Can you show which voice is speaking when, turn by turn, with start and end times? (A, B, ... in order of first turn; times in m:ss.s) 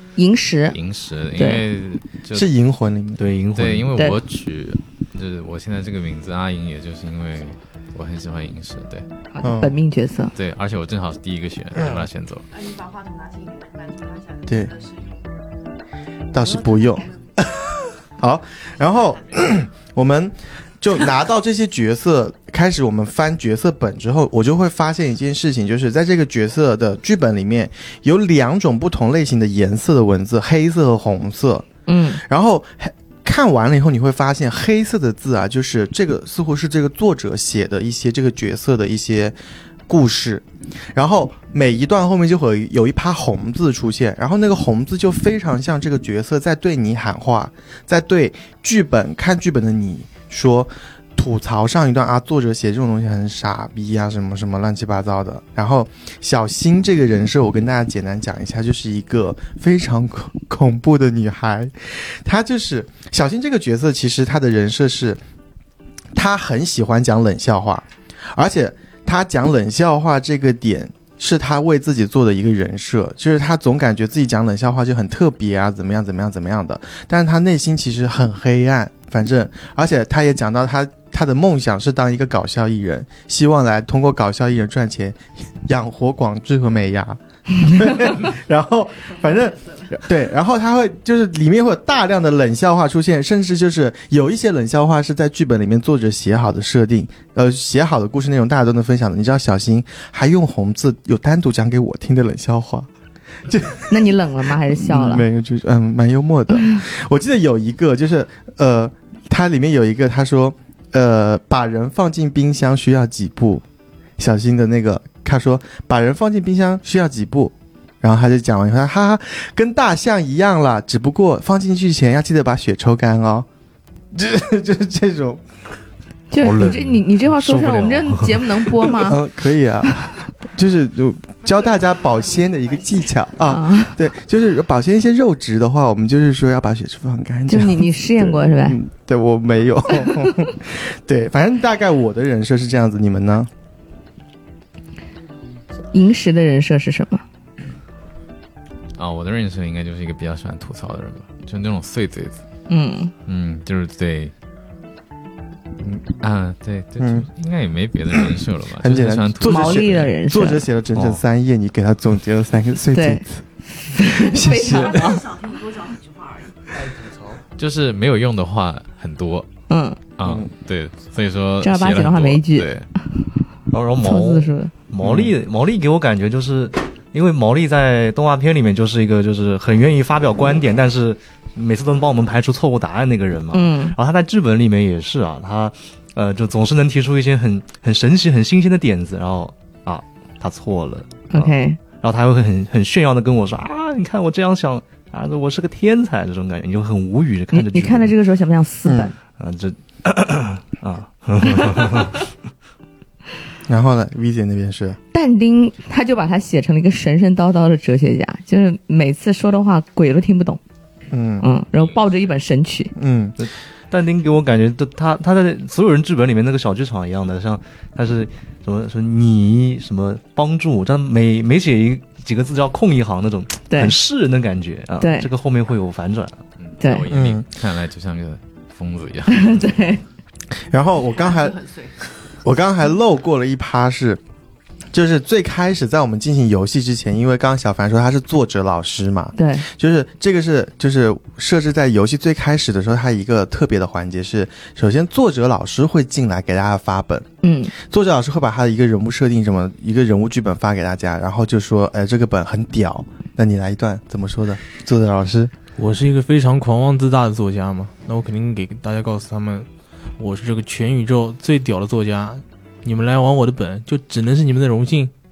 0:00.2-0:00.8 A
0:00.7-0:02.5 B
0:01.4-0:01.6 A
0:02.3-0:03.2 C
0:03.2-0:04.0 D
0:03.5-0:09.1 B
0:09.3-0:10.3 A
0:09.4-0:09.8 C
0:10.3-0:12.5 B
0:12.5-0:15.3 E
0:14.5-0:14.7 C
0:16.3-0:39.3 C
0:16.4-0:17.1 E
0:31.9-0:32.2 A
0:39.9-1:05.2 C
1:06.1-1:42.9 C
1:43.4-1:44.1 C
1:43.9-1:45.2 A
1:44.7-1:53.6 C
1:46.6-1:46.8 A
1:54.2-2:03.5 C
2:04.1-2:05.4 C
2:06.3-2:09.2 A
2:06.4-2:08.8 D
2:09.0-2:23.5 C
2:13.4-2:14.0 A
2:17.5-2:18.8 A
2:25.9-2:27.2 A
2:29.0-2:32.4 B
2:32.7-2:33.1 A
2:33.3-2:34.3 B
2:36.2-2:40.1 B
2:37.0-2:37.3 C
2:38.8-2:43.4 C
2:39.4-2:40.7 A
2:41.0-2:41.2 D
2:42.9-2:45.4 A
2:44.0-2:45.3 C
2:45.4-2:46.5 E
2:47.6-2:49.5 B
2:49.7-2:50.0 A
2:50.2-2:52.9 B
2:51.6-2:53.2 A
2:53.7-3:18.1 D
2:54.0-2:54.7 A
2:55.0-2:55.3 C
3:03.5-3:04.0 A
3:11.3-3:11.8 A
3:17.5-3:19.1 A
3:18.8-3:19.1 C
3:19.3-3:22.3 D
3:23.7-3:25.0 C
3:25.1-3:30.6 A
3:31.1-3:31.5 C
3:31.4-3:32.9 A
3:33.0-3:33.4 C
3:33.4-3:46.4 D
3:43.7-3:44.0 A
3:45.0-3:45.3 A
3:46.6-3:49.6 B
3:47.1-3:47.4 C
3:49.3-3:50.0 A
3:50.6-3:51.6 C
3:51.2-3:51.9 E
3:52.4-3:54.2 C
3:54.9-4:15.5 C
3:59.4-3:59.7 A
4:07.4-4:07.7 A
4:15.8-4:25.1 F